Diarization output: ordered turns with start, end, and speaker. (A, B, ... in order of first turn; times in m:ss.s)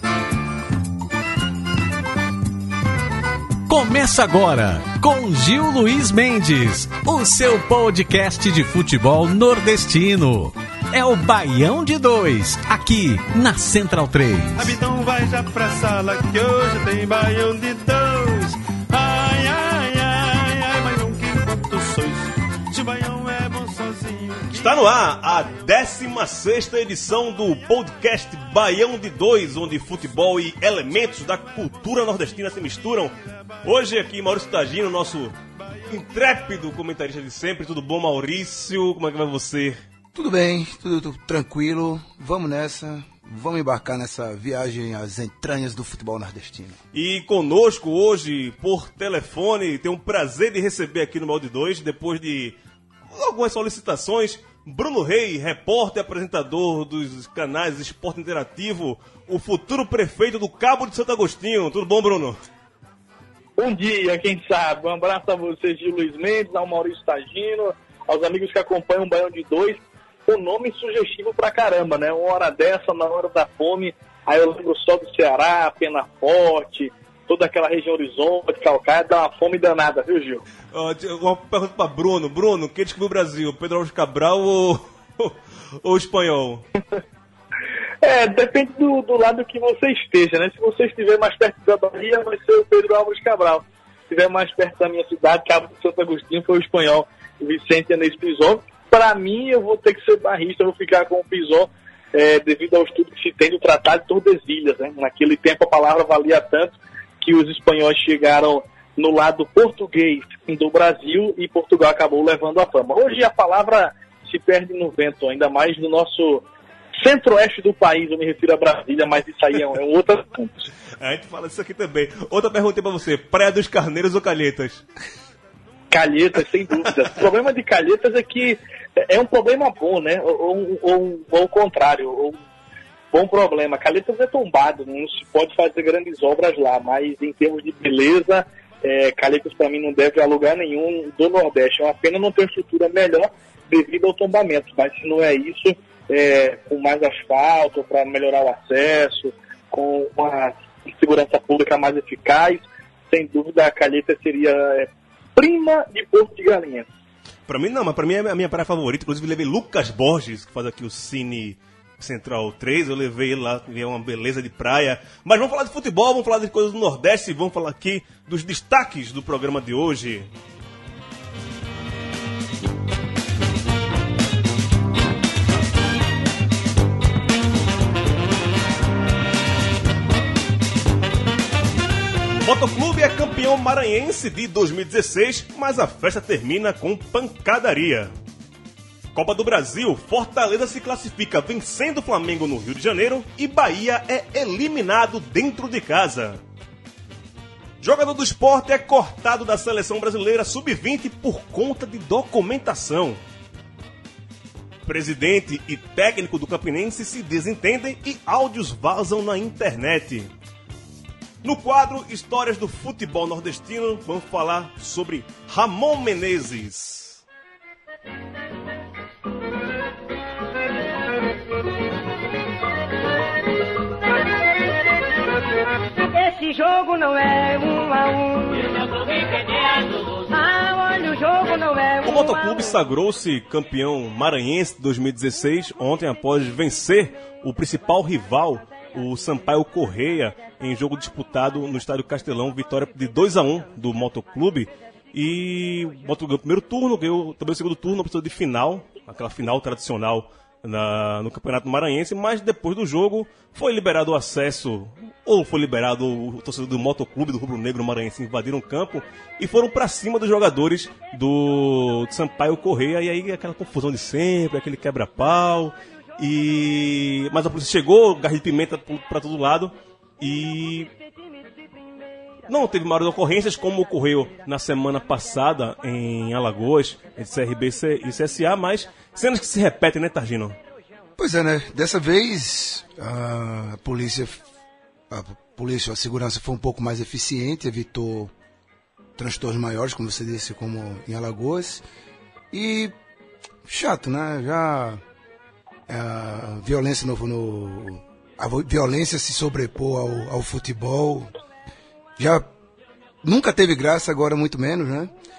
0:03.6-0:14.8 A
0:14.5-0:24.8 B
0:24.5-0:35.4 C
0:35.9-0:39.8 C
0:40.1-0:46.8 D
0:46.9-0:52.6 C
0:53.1-1:02.4 C
1:03.6-1:20.4 E
1:20.7-1:26.6 C
1:28.0-1:56.4 E
1:57.0-2:00.7 E
2:01.0-2:04.8 C
2:05.9-2:12.4 E
2:13.1-2:36.9 E
2:37.5-2:50.3 C
3:02.4-3:08.1 C
3:09.1-3:16.4 C
3:17.8-3:23.2 C
3:24.8-3:30.3 C
3:31.4-3:37.2 C
3:46.1-3:52.7 F
3:52.0-4:30.9 C
4:32.5-4:40.6 C
4:41.2-4:44.4 D
4:45.1-4:48.3 D
4:49.2-4:51.8 D
4:52.5-4:52.9 D
4:53.6-4:55.0 D
4:55.9-5:01.3 D
5:02.2-5:02.5 D
5:03.2-5:05.1 D